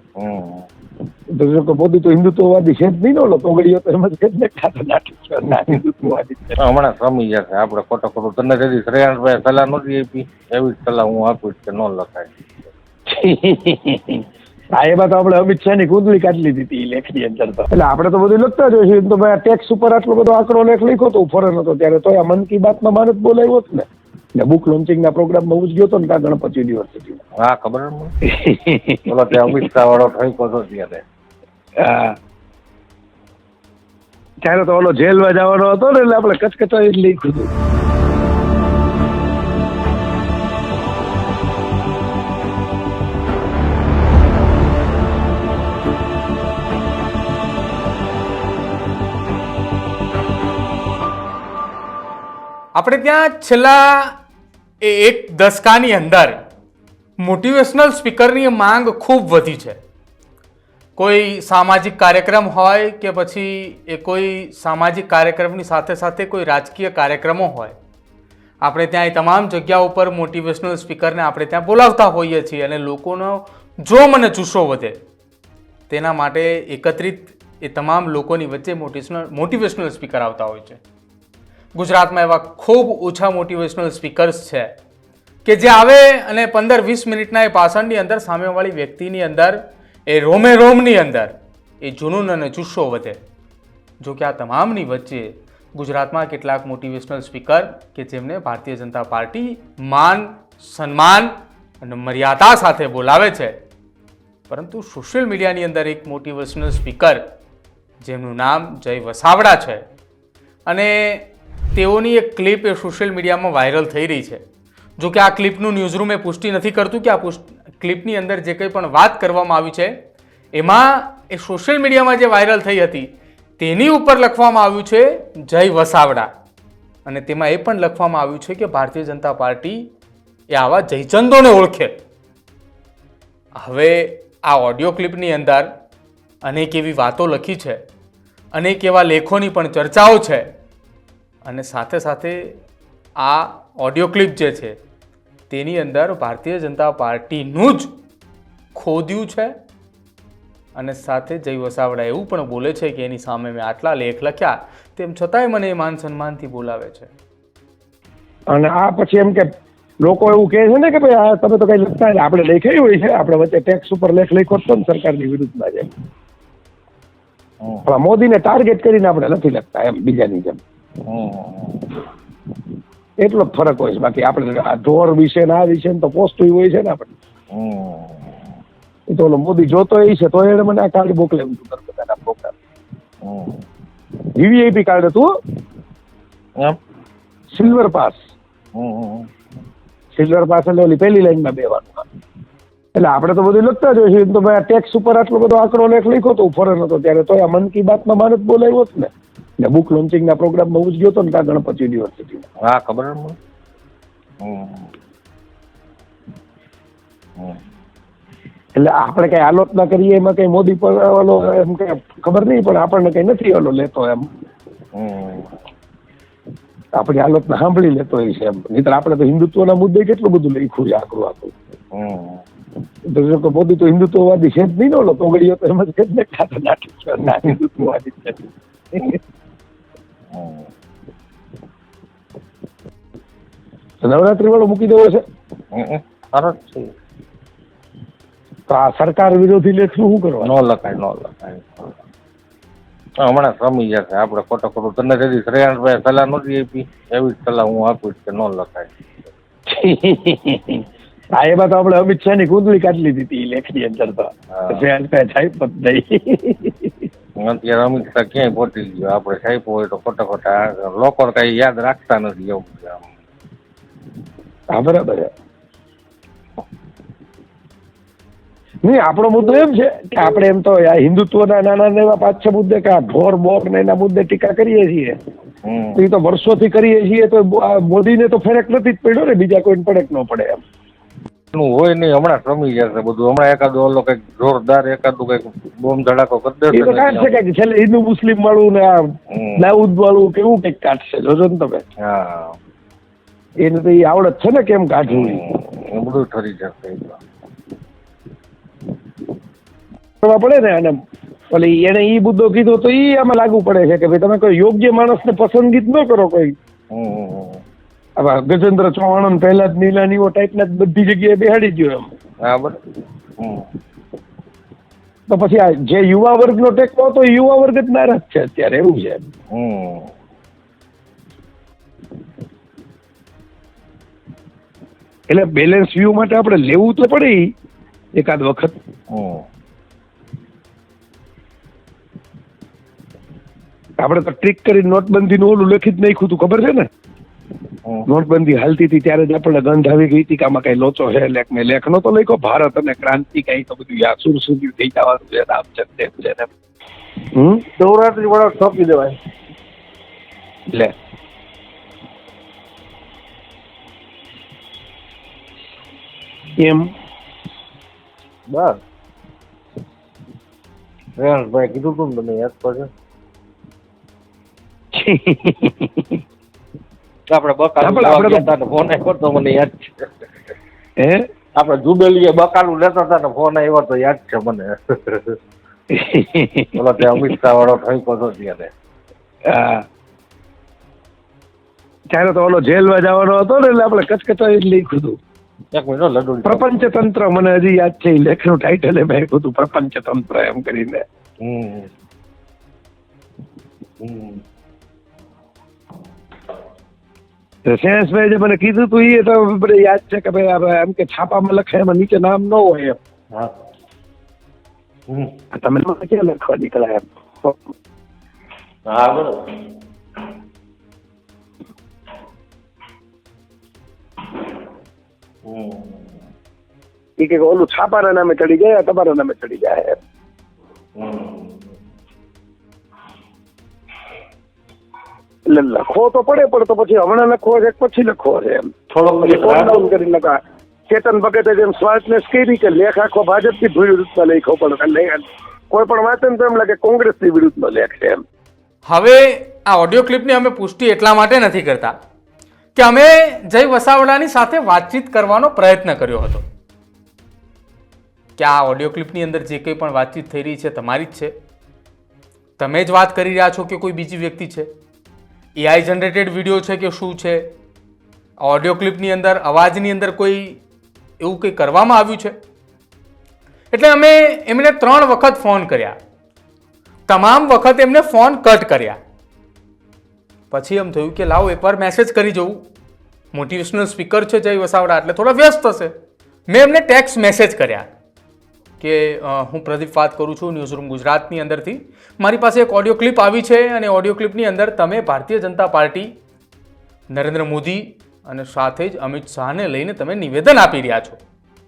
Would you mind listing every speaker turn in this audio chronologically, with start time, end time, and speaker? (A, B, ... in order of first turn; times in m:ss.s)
0:00.2-0:00.7 A
0:01.3-0:06.6 B
0:06.6-0:12.4 A
0:13.1-0:14.2 B
0:14.8-0:27.2 B
0:27.4-0:28.1 A
0:28.3-0:29.4 B
0:29.1-0:31.0 A
0:31.8-0:32.2 B
0:34.4-0:37.5 B
0:52.7-0:54.2 C
0:54.8-0:56.4 C
0:57.2-0:59.8 C
1:01.0-1:07.7 C
1:08.6-1:15.0 C
1:15.9-1:20.8 C
1:21.7-1:24.7 C
1:25.4-1:33.2 C
1:34.0-1:41.3 C
1:41.8-1:43.6 C
1:44.5-1:47.2 C
1:48.0-1:49.8 C
1:50.7-1:54.4 C
1:55.0-1:59.9 C
2:00.5-2:06.3 C
2:07.0-2:09.8 C
2:10.5-2:11.9 C
2:13.6-2:15.7 C
2:16.4-2:17.8 C
2:18.5-2:20.5 C
2:21.4-2:22.6 C
2:23.2-2:24.8 C
2:25.5-2:27.9 C
2:28.7-2:29.5 C
2:30.7-2:37.1 C
2:38.5-2:39.5 B
2:40.0-2:45.9 B
2:47.8-2:50.6 B
2:51.0-2:51.9 A
2:53.2-2:57.1 B
2:57.5-2:58.3 A
2:59.1-3:02.5 B
3:03.2-3:03.6 A
3:04.3-3:05.3 B
3:07.5-3:08.2 B
3:08.7-3:09.3 A
3:10.1-3:12.0 B
3:12.9-3:19.1 B
3:19.6-3:22.5 B
3:22.6-3:23.4 A
3:24.4-3:24.9 A
3:28.8-3:34.3 B
3:34.9-3:35.5 A
3:36.9-3:41.5 B
3:41.9-3:42.4 A
3:43.1-3:49.2 B
3:50.3-3:50.7 A
3:54.0-3:55.2 B
3:55.7-3:56.9 A
3:58.7-4:00.5 B
4:00.4-4:02.0 A
4:03.2-4:08.9 A
4:09.7-4:10.8 B
4:11.3-4:16.9 B
4:14.6-4:14.8 A
4:17.4-4:23.0 A
4:24.7-4:25.3 B
4:28.8-4:35.2 B
4:35.6-4:36.0 A
4:36.0-4:40.6 B
4:41.5-4:47.4 A
4:46.7-4:51.8 B
4:49.3-4:49.6 A
4:52.0-4:52.6 A
4:53.6-4:55.4 B
4:55.1-4:57.2 A
5:00.2-5:01.0 B
5:01.5-5:06.6 B
5:06.9-5:07.6 A
5:08.2-5:12.1 B
5:12.4-5:12.8 A
5:13.4-5:13.7 A
5:15.3-5:19.2 B
5:19.5-5:20.1 A
5:25.3-5:27.4 B
5:28.2-5:28.8 B
5:29.1-5:29.4 A
5:34.0-5:36.9 B
5:38.0-5:46.5 B
5:47.3-5:47.6 B
5:47.8-5:49.2 A
5:56.6-5:56.9 B
5:58.5-5:58.8 A
6:01.2-6:02.9 A
6:04.9-6:06.1 B
6:07.3-6:10.1 A
6:07.8-6:08.4 B
6:11.0-6:11.2 B
6:11.5-6:15.4 A
6:15.9-6:16.8 B
6:16.7-6:18.7 A
6:19.5-6:19.8 B
6:22.1-6:25.2 B
6:25.7-6:26.9 A
6:26.4-6:31.0 B
6:31.4-6:31.9 A
6:34.0-6:34.4 A
6:37.7-6:43.0 B
6:45.5-6:47.6 B
6:48.9-6:49.6 A
6:55.4-6:56.1 A
6:57.2-7:00.0 B
7:01.0-7:01.6 A
7:05.5-7:10.4 B
7:08.9-7:09.9 A
7:10.9-7:18.2 B
7:18.9-7:21.9 C
7:22.7-7:26.4 C
7:28.4-7:31.3 C
7:32.6-7:34.7 C
7:35.6-7:37.4 C
7:38.4-7:40.6 C
7:41.2-7:42.3 C
7:43.7-7:45.9 C
7:47.1-7:49.0 C
7:50.5-7:52.6 C
7:53.3-7:55.9 C
7:56.5-7:57.9 C
7:58.8-8:06.1 C
8:07.1-8:11.2 C